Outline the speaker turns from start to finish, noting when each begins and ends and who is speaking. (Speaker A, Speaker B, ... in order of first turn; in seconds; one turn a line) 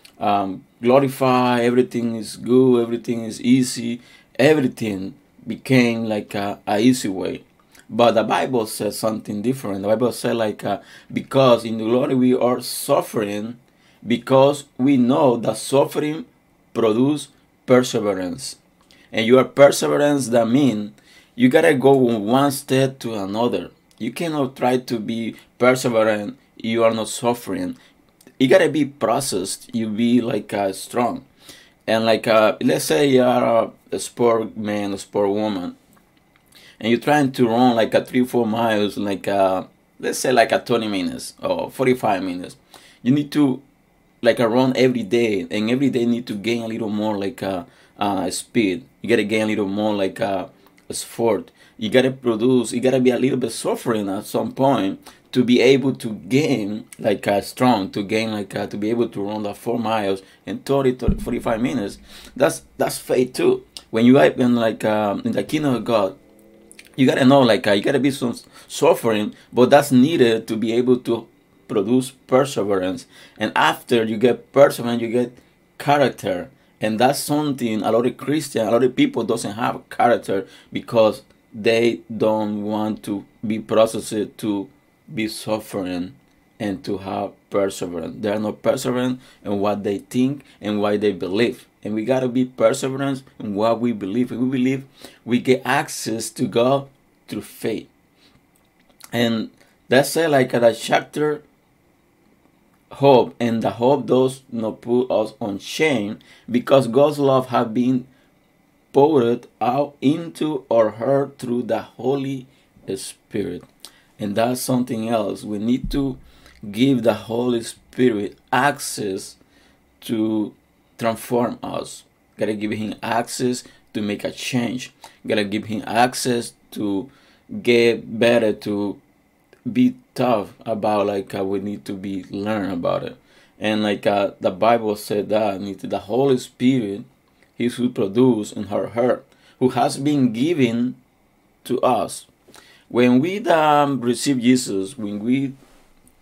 Speaker A: 0.2-18.6
Speaker A: 19.1-27.8
Speaker A: 28.4-31.2
Speaker A: 31.9-35.8
Speaker A: 36.8-43.6
Speaker A: 44.2-66.2
Speaker A: 67.0-97.9
Speaker A: 99.1-101.4
Speaker A: 102.9-108.1
Speaker A: 108.9-113.7
Speaker A: 114.2-119.4
Speaker A: 120.0-129.0
Speaker A: 129.7-141.0
Speaker A: 141.6-142.3
Speaker A: 142.9-145.6